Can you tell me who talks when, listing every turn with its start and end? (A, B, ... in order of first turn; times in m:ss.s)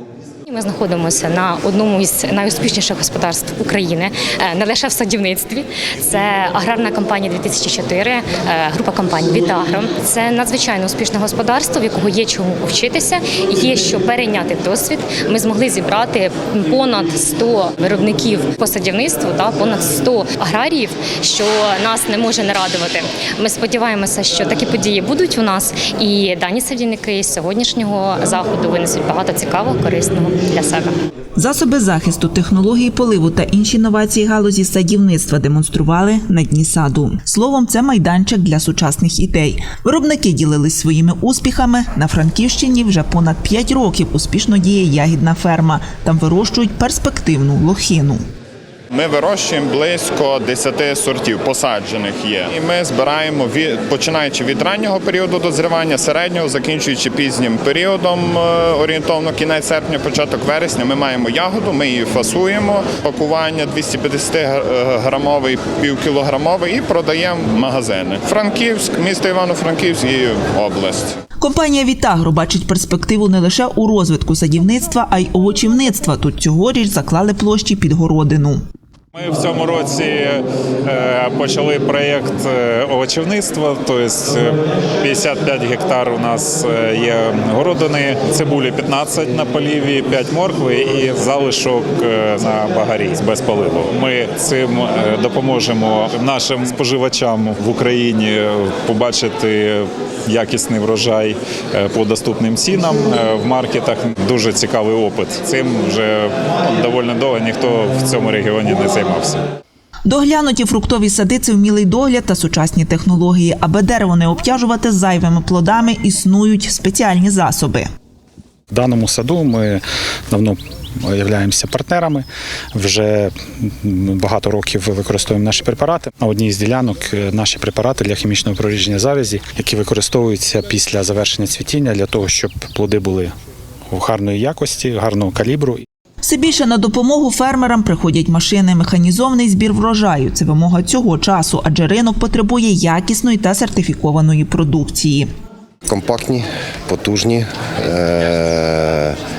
0:00.5-0:30.9 A
0:31.4-0:48.2 B
0:48.9-1:11.1 C
1:11.4-1:18.6 B
1:19.1-1:49.4 D
1:50.1-1:57.9 B
1:58.7-2:13.3 E
2:13.9-2:15.8 E
2:16.2-2:25.3 B
2:25.9-2:29.2 F